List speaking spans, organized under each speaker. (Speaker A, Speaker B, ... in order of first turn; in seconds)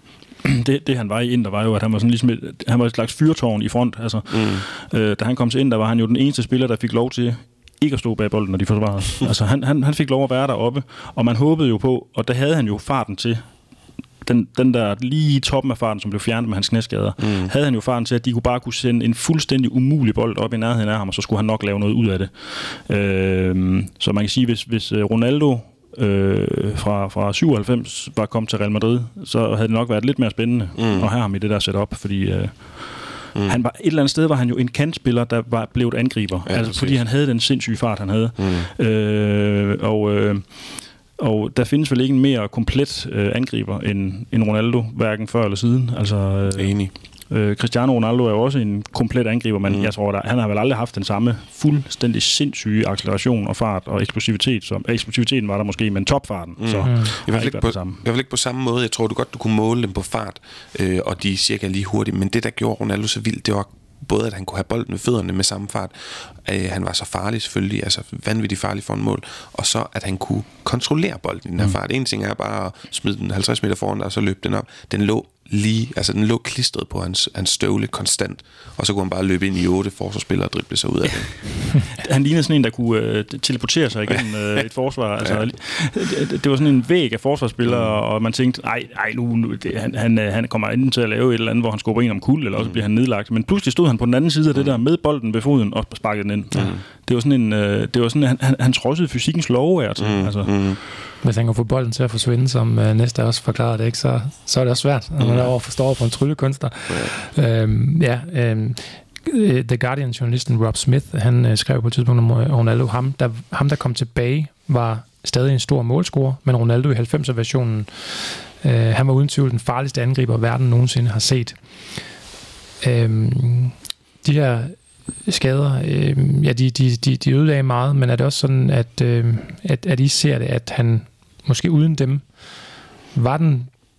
Speaker A: 0.4-13.4, 14.2-58.0, 81.9-100.5
Speaker B: 4.3-4.6, 17.2-17.5, 30.8-31.1, 36.5-37.0, 38.4-38.7, 46.5-46.9, 49.7-49.9, 56.6-81.3, 85.2-85.5, 87.7-88.0, 96.5-96.8, 100.0-100.8, 105.2-105.5
Speaker C: 56.9-57.1, 101.2-121.6, 122.8-132.2, 133.1-133.7